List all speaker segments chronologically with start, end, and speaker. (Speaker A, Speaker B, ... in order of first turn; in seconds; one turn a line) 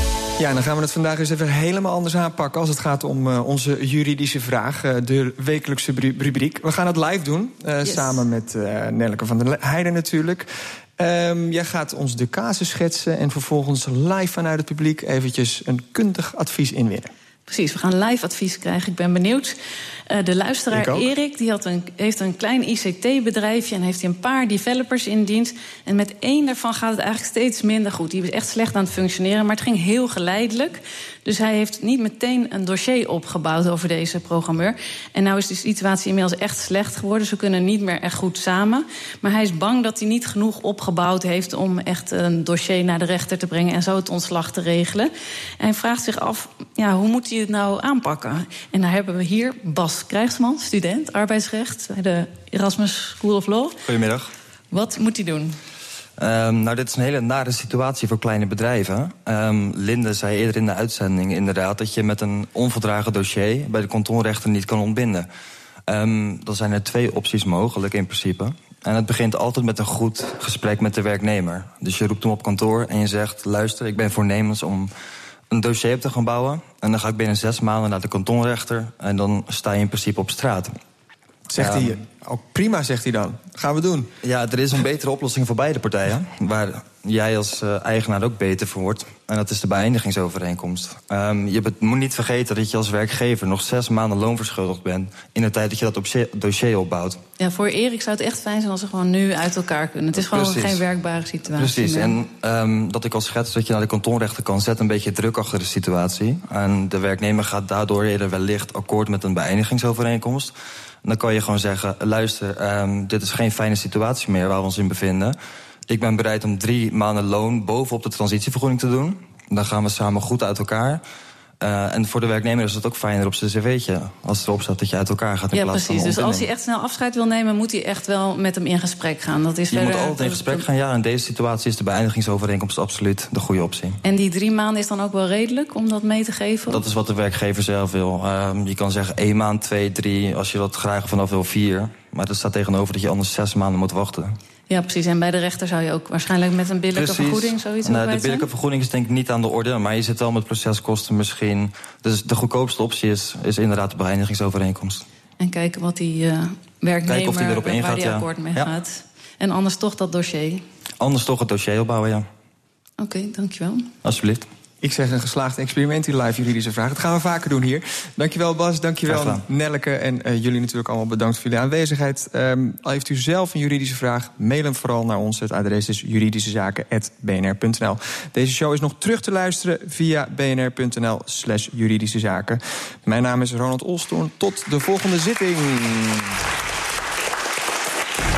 Speaker A: 0.4-17.1
Speaker B: 17.5-19.5
Speaker B: 20.1-53.8
Speaker A: 20.7-21.1
Speaker C: 53.9-54.3
Speaker B: 54.7-55.6
Speaker C: 56.2-65.3
Speaker C: 65.9-74.9
Speaker C: 75.5-80.7
Speaker A: 81.5-84.1
Speaker C: 81.6-81.9
Speaker C: 84.2-97.2
Speaker B: 97.4-102.2
Speaker C: 100.2-100.8
Speaker C: 101.5-110.5
Speaker C: 111.0-115.3
Speaker C: 115.9-121.0
Speaker C: 121.6-126.5
Speaker B: 125.5-130.6
Speaker C: 129.7-134.0
Speaker B: 134.0-136.8
Speaker C: 136.7-144.4
Speaker B: 144.7-148.5
Speaker C: 146.9-155.0
Speaker B: 155.4-160.6
Speaker C: 157.0-158.7
Speaker C: 161.0-162.3
Speaker B: 163.0-163.9
Speaker C: 164.0-164.4
Speaker A: 164.8-186.3
Speaker C: 169.1-169.4